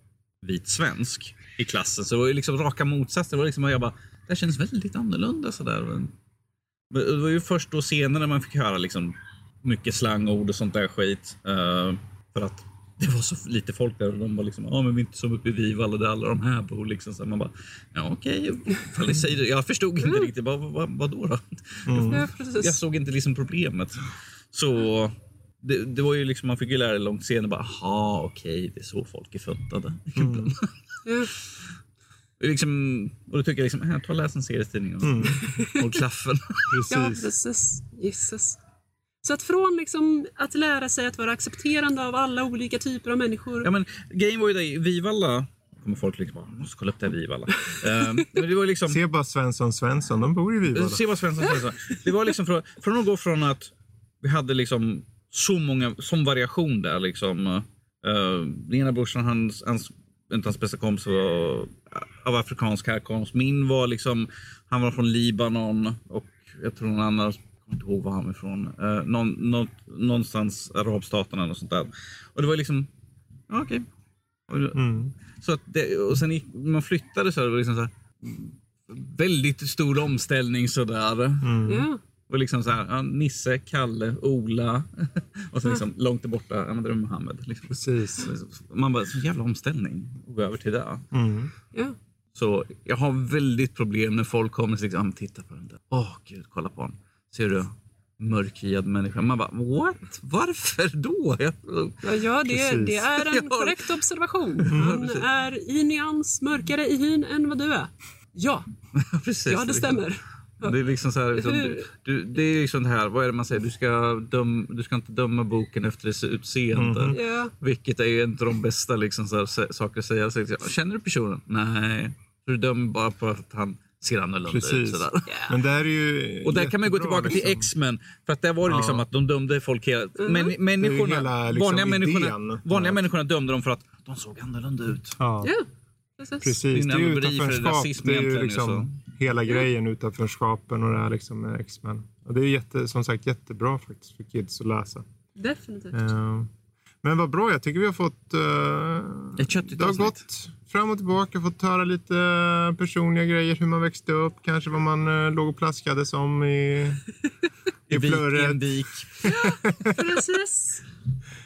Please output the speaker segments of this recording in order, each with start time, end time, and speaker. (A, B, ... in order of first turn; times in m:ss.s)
0:00.4-0:06.1 A
0:06.9-0:30.7 A
0:20.0-0:20.3 B
0:21.9-0:22.3 C
0:22.1-0:22.8 B
0:30.2-0:30.5 C
0:31.0-0:31.3 B
0:31.3-0:31.6 A
0:32.4-0:36.8 A
0:35.0-0:35.4 C
0:35.4-0:35.8 B
0:36.7-0:37.3 C
0:36.9-0:38.6 B
0:39.2-0:43.7 B
0:43.6-0:49.0 A
0:48.9-0:51.0 C
0:50.7-1:12.9 A
1:13.5-1:13.9 A
1:14.5-1:21.6 A
1:14.7-1:15.1 C
1:21.4-1:21.9 C
1:21.6-1:22.0 B
1:22.3-1:31.0 A
1:27.7-1:28.3 C
1:31.1-1:31.5 C
1:32.4-1:42.0 A
1:42.0-1:48.7 B
1:42.5-1:43.0 C
1:43.1-1:43.9 A
1:44.6-1:45.3 A
1:44.7-1:45.0 C
1:49.0-1:50.1 A
1:49.5-1:50.8 B
1:50.6-2:05.3 A
1:51.3-1:51.9 B
1:56.8-1:57.2 C
1:57.1-1:57.5 B
2:04.5-2:07.7 C
2:05.3-2:05.6 B
2:06.4-2:15.2 A
2:08.7-2:09.0 C
2:10.2-2:10.5 B
2:10.8-2:13.0 C
2:15.2-2:15.5 C
2:15.4-2:15.7 B
2:16.2-2:16.6 B
2:16.4-2:25.0 C
2:16.6-2:19.0 A
2:25.4-2:26.0 B
2:25.9-2:26.5 C
2:27.0-2:37.1 C
2:29.4-2:30.2 A
2:37.9-2:38.6 C
2:37.9-2:39.3 A
2:39.2-2:40.0 C
2:39.2-2:40.8 B